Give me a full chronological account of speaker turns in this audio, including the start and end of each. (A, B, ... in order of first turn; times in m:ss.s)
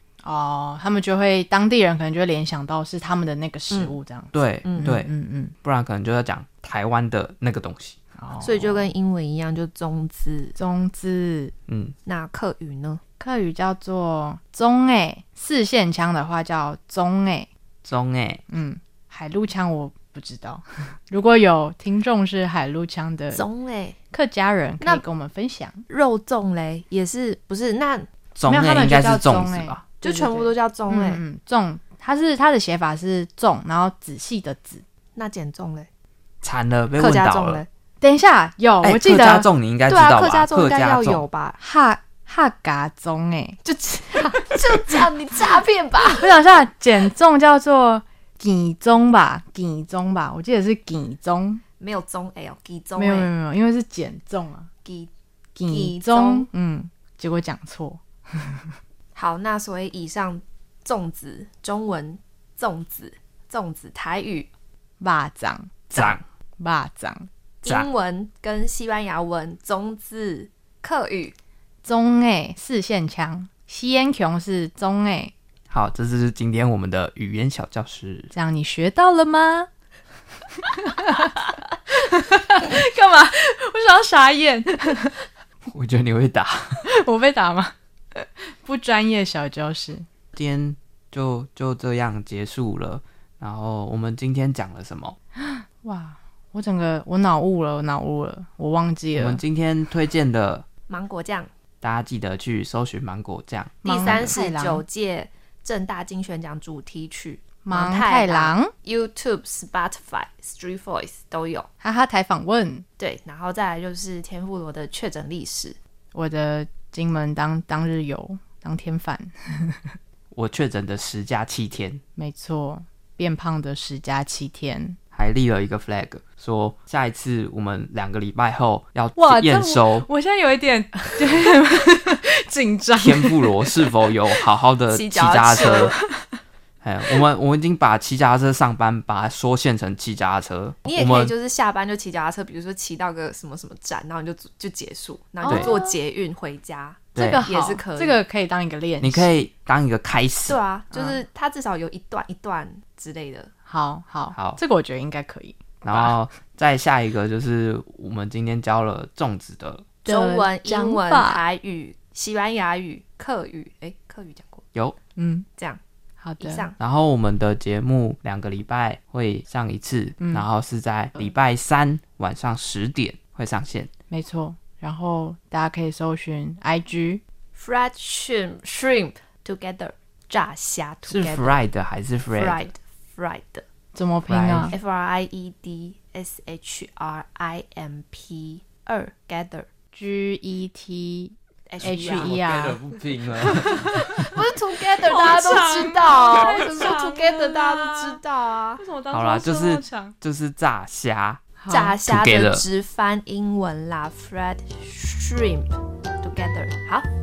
0:00.2-0:05.5 A
0:04.3-0:05.1 B
0:04.6-0:04.9 C
0:05.6-0:08.0 B
0:08.2-0:08.9 A
0:08.4-0:10.6 C
0:10.6-0:11.5 A
0:11.7-0:12.0 B
0:12.1-0:13.0 C
0:13.2-0:17.5 A
0:17.8-0:18.4 B
0:18.5-0:23.4 A
0:23.3-0:24.0 C
0:24.1-0:25.8 A
0:25.9-0:28.1 C
0:28.4-0:29.8 B
0:28.5-0:34.8 A
0:30.0-0:31.2 C
0:35.2-0:35.9 C
0:36.4-0:37.6 B
0:37.0-0:37.7 C
0:38.0-0:39.5 A
0:38.8-0:41.2 B
0:39.9-0:41.6 C
0:41.6-0:45.0 A
0:43.7-0:46.3 C
0:46.1-0:51.6 A
0:51.8-0:53.3 C
0:53.0-0:54.7 A
0:54.8-0:55.1 C
0:55.6-0:58.7 A
0:55.7-0:56.5 C
0:59.2-1:04.5 C
1:05.0-1:07.3 A
1:06.0-1:06.2 B
1:07.6-1:11.4 C
1:11.8-1:15.3 A
1:15.7-1:18.3 B
1:18.3-1:19.7 A
1:20.6-1:25.2 A
1:25.7-1:26.8 B
1:26.9-1:30.1 A
1:30.3-1:35.2 B
1:35.4-1:39.4 A
1:39.2-1:40.7 B
1:40.9-1:41.5 C
1:41.8-1:44.3 B
1:43.8-1:44.8 A
1:43.8-1:51.7 C
1:47.6-1:48.7 A
1:51.8-1:52.8 A
1:53.0-1:55.8 C
1:56.1-1:59.8 A
2:00.3-2:02.0 B
2:02.2-2:05.0 A
2:05.1-2:10.1 B
2:09.2-2:13.6 A
2:13.0-2:16.0 B
2:14.9-2:16.0 C
2:16.8-2:21.3 B
2:20.9-2:28.2 C
2:25.4-2:26.0 A
2:25.5-2:25.8 B
2:27.2-2:27.5 B
2:27.2-2:29.4 A
2:29.0-2:30.6 B
2:30.5-2:33.5 C
2:30.9-2:31.2 A
2:33.7-2:36.2 A
2:34.3-2:34.6 B
2:35.8-2:39.9 B
2:40.1-2:41.4 A
2:40.1-2:44.7 C
2:45.2-2:45.5 A
2:46.2-2:46.7 A
2:46.4-2:46.8 C
2:46.8-2:53.9 B
2:50.2-2:50.5 A
2:54.1-2:57.2 A
2:57.6-3:01.6 C
3:01.1-3:02.6 B
3:02.4-3:03.6 C
3:04.0-3:04.8 A
3:04.3-3:04.8 B
3:04.7-3:09.7 C
3:09.9-3:12.8 A
3:11.7-3:12.3 C
3:11.8-3:14.3 B
3:13.5-3:14.4 A
3:13.6-3:18.8 C
3:15.0-3:18.2 A
3:18.8-3:20.2 A
3:19.1-3:21.4 B
3:21.6-3:22.0 A
3:21.7-3:27.1 C
3:22.0-3:22.6 B